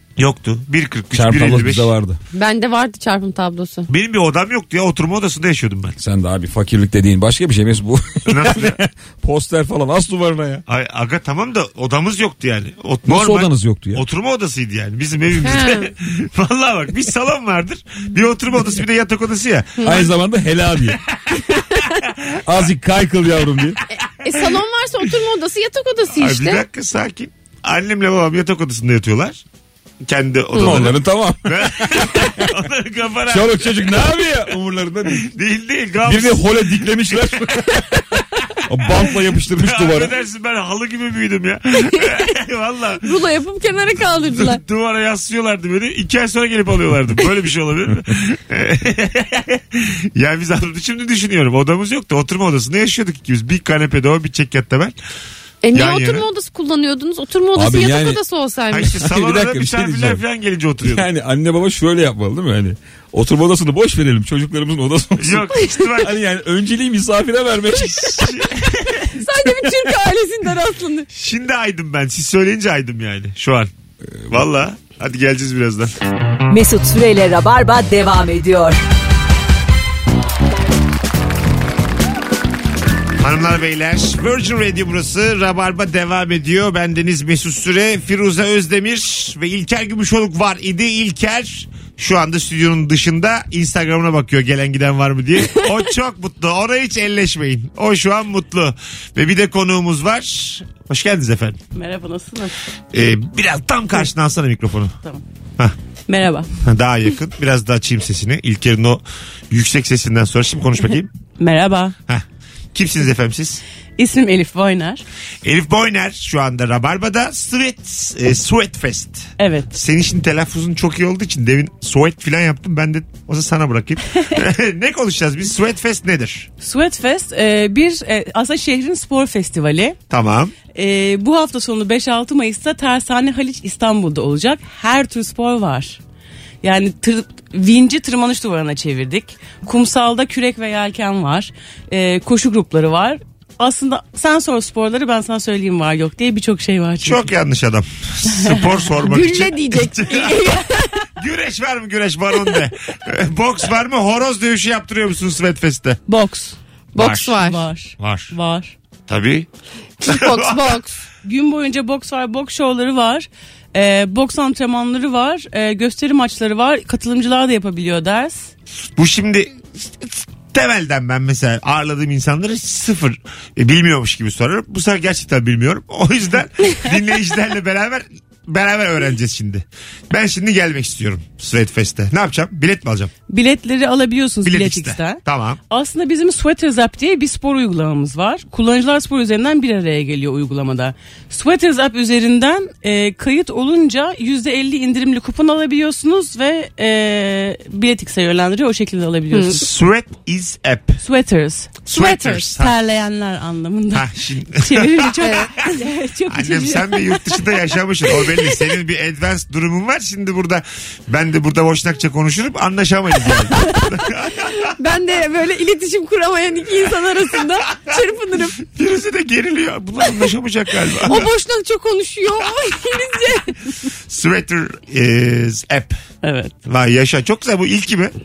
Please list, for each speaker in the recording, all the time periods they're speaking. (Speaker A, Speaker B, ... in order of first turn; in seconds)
Speaker A: 0.2-1.9, 3.9-6.0, 8.3-8.8, 10.7-20.1, 26.1-29.4, 30.0-34.0, 35.2-37.8, 39.0-43.1, 44.3-55.0, 55.7-56.2, 58.7-61.1, 65.2-66.2, 68.2-69.0, 71.1-73.7, 74.3-75.9, 83.2-101.6, 102.9-104.9, 106.6-111.1, 112.7-113.6, 115.4-126.5, 130.1-130.5, 147.0-150.5, 151.2-156.0, 156.9-157.3, 158.0-158.3, 159.1-159.5, 160.1-160.8, 169.0-183.1, 184.4-185.6, 199.5-201.0, 201.8-202.7, 203.9-205.2, 206.3-214.7, 218.6-221.3, 224.1-226.0, 226.7-228.1
Speaker B: 1.1-2.2, 6.0-10.6, 13.1-14.0, 19.8-21.0, 22.4-23.8, 30.5-32.5, 33.3-35.2, 36.0-37.9, 38.7-40.1, 57.5-58.2, 59.0-60.2, 60.8-68.5
Speaker C: 2.3-3.9, 15.4-15.9, 19.8-20.0, 21.6-21.9, 23.9-26.6, 41.9-42.2, 43.0-44.6, 55.6-59.0, 69.2-71.1, 149.0-151.1, 156.9-157.6, 160.0-161.0, 199.3-199.6, 201.9-202.4, 205.2-205.6, 214.6-218.6, 221.0-223.7
Speaker D: 76.5-78.8
Speaker E: 101.7-102.5, 106.1-106.5, 111.4-111.9, 114.0-115.0, 119.4-119.7, 126.6-130.0, 130.7-136.0, 136.6-147.3, 148.3-148.8, 156.1-156.6, 157.1-158.8, 161.2-168.5, 183.3-199.7, 201.0-208.4, 226.2-226.5